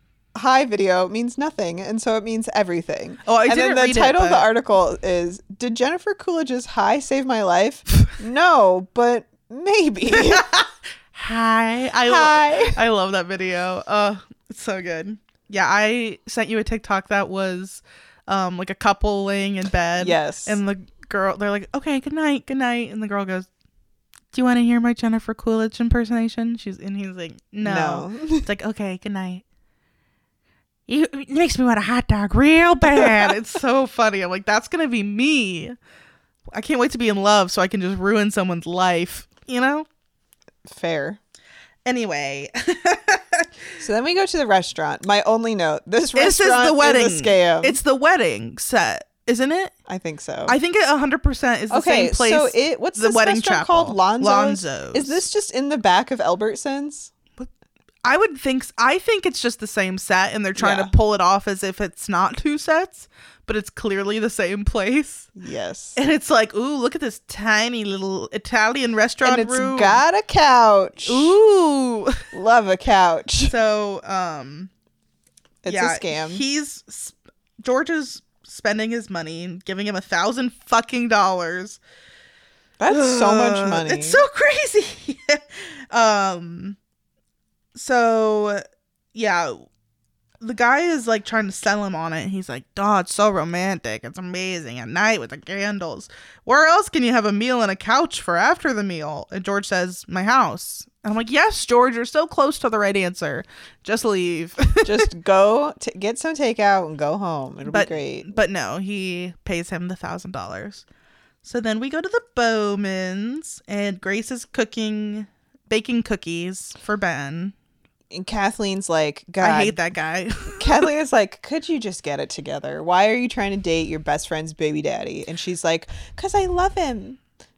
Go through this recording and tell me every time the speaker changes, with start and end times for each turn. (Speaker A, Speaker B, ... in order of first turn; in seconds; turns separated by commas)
Speaker A: 0.3-10.5, Speaker B: 3.2-4.5, Speaker B: 10.2-23.5, Speaker A: 12.0-12.8, Speaker A: 20.0-20.6, Speaker B: 24.3-29.4, Speaker A: 27.6-28.5, Speaker B: 30.9-35.8, Speaker A: 32.9-33.3, Speaker B: 36.5-39.9, Speaker A: 40.6-41.2, Speaker B: 41.8-43.5, Speaker A: 43.8-47.8, Speaker B: 46.1-49.7, Speaker A: 49.9-50.5, Speaker B: 50.5-55.2, Speaker A: 51.7-57.1, Speaker B: 58.0-65.3, Speaker A: 60.6-60.9, Speaker A: 65.3-66.0, Speaker B: 66.0-70.0, Speaker A: 69.2-71.3, Speaker B: 71.0-72.2, Speaker A: 72.3-73.5, Speaker B: 73.4-74.7, Speaker A: 75.6-76.4, Speaker B: 75.7-81.8, Speaker A: 82.8-84.2, Speaker B: 82.9-86.8, Speaker B: 87.7-89.7, Speaker B: 90.4-105.0, Speaker A: 104.8-108.3, Speaker B: 107.7-110.8, Speaker B: 111.4-117.5, Speaker A: 118.1-119.8, Speaker B: 119.4-120.9, Speaker A: 120.5-127.2